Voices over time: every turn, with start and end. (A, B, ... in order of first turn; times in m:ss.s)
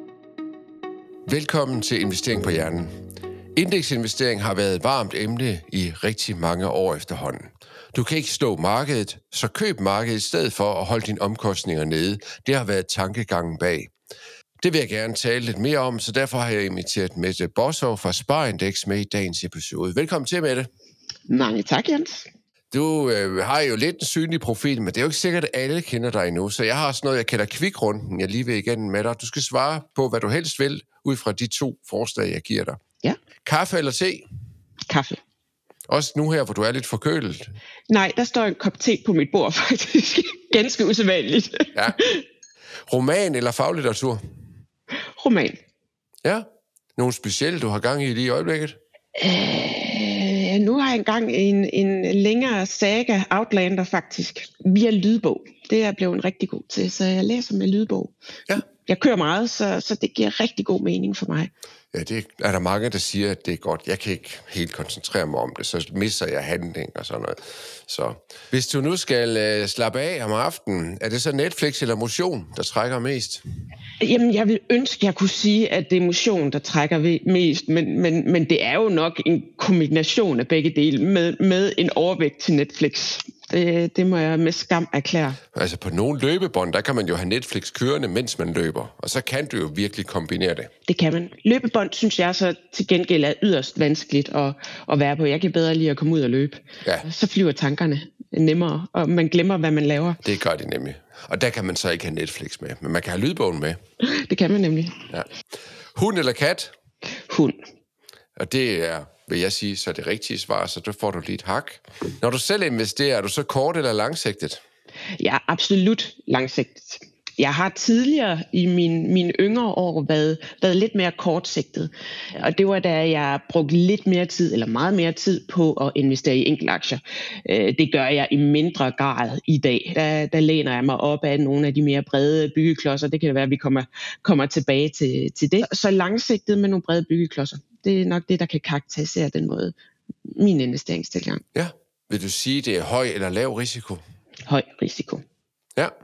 0:01.2-0:02.9 A
0:03.5-0:13.9 A
0:14.6-0:20.7 A
0:21.3-0:22.3 B
0:22.7-0:32.8 A
0:33.4-0:34.2 A
0:34.9-0:35.2 B
0:35.9-0:37.5 A
0:37.9-0:42.2 B
0:42.9-0:44.2 A
0:45.2-0:45.6 B
0:46.2-0:48.8 A
0:49.2-0:58.1 B
0:58.7-1:01.5 B
1:01.9-1:13.4 A
1:14.0-1:25.4 B
1:25.5-1:30.7 A
1:30.9-1:40.2 B
1:40.2-1:43.8 A
1:44.0-1:45.0 B
1:45.9-1:46.7 A
1:47.2-1:47.6 B
1:48.4-1:54.6 A
1:55.2-2:19.7 B
2:20.3-2:21.4 B
2:21.5-2:24.0 A
2:24.5-2:25.2 B